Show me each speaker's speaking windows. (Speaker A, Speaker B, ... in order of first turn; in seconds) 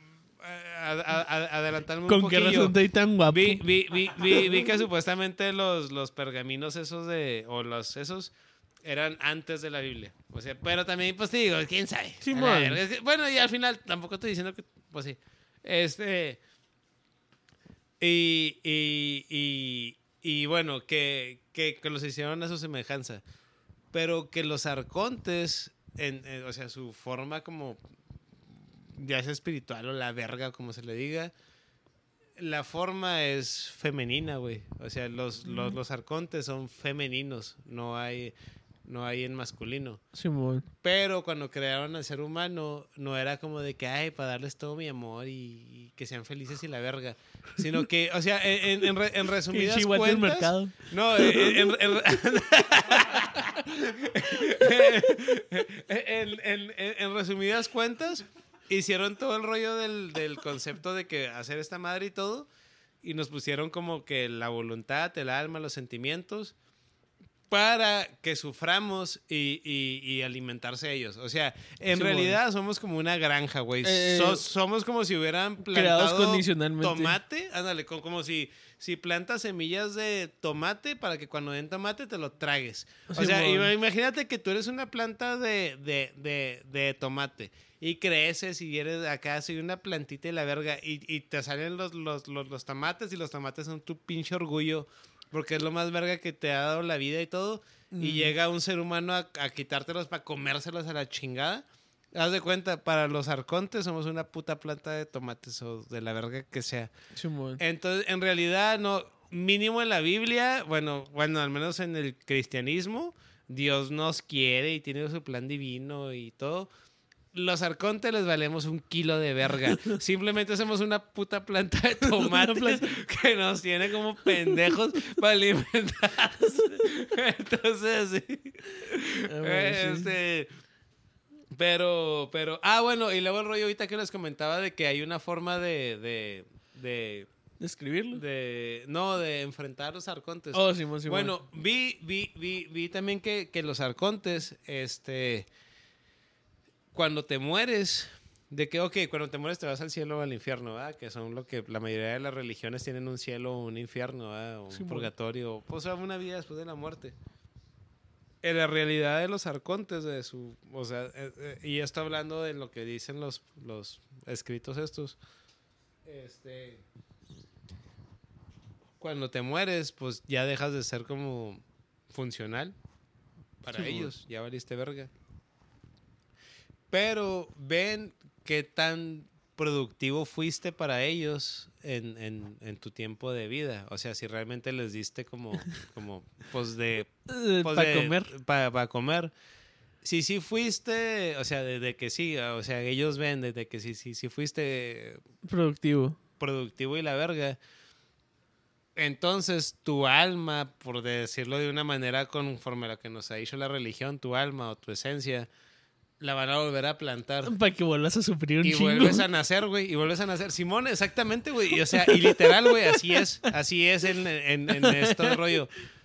Speaker A: 0.4-2.8, 3.3-8.3, 8.8-16.4, 18.0-23.2, 23.9-27.8, 28.9-31.3, 32.4-38.3, 38.9-40.0, 40.8-62.5, 63.0-66.5, 67.5-106.9, 107.6-116.7, 117.3-130.5, 131.5-137.3, 138.1-145.5, 146.9-157.2, 158.4-165.2, 166.1-166.8, 169.0-172.8, 173.6-175.1, 176.9-189.3, 190.0-195.2, 196.4-197.6, 198.9-205.5, 206.2-207.5, 208.6-215.7
Speaker B: 2.1-3.6, 12.2-12.8, 35.5-35.8, 40.1-40.7, 49.5-51.7, 71.9-72.4, 73.8-74.4, 75.7-77.1, 83.1-83.7, 97.9-98.3, 107.1-107.6, 122.1-122.9, 129.2-130.1, 137.6-138.2, 140.5-141.4, 154.7-155.1, 173.7-174.1, 187.3-188.3, 195.4-196.2, 207.4-209.2, 211.9-213.2, 214.7-215.4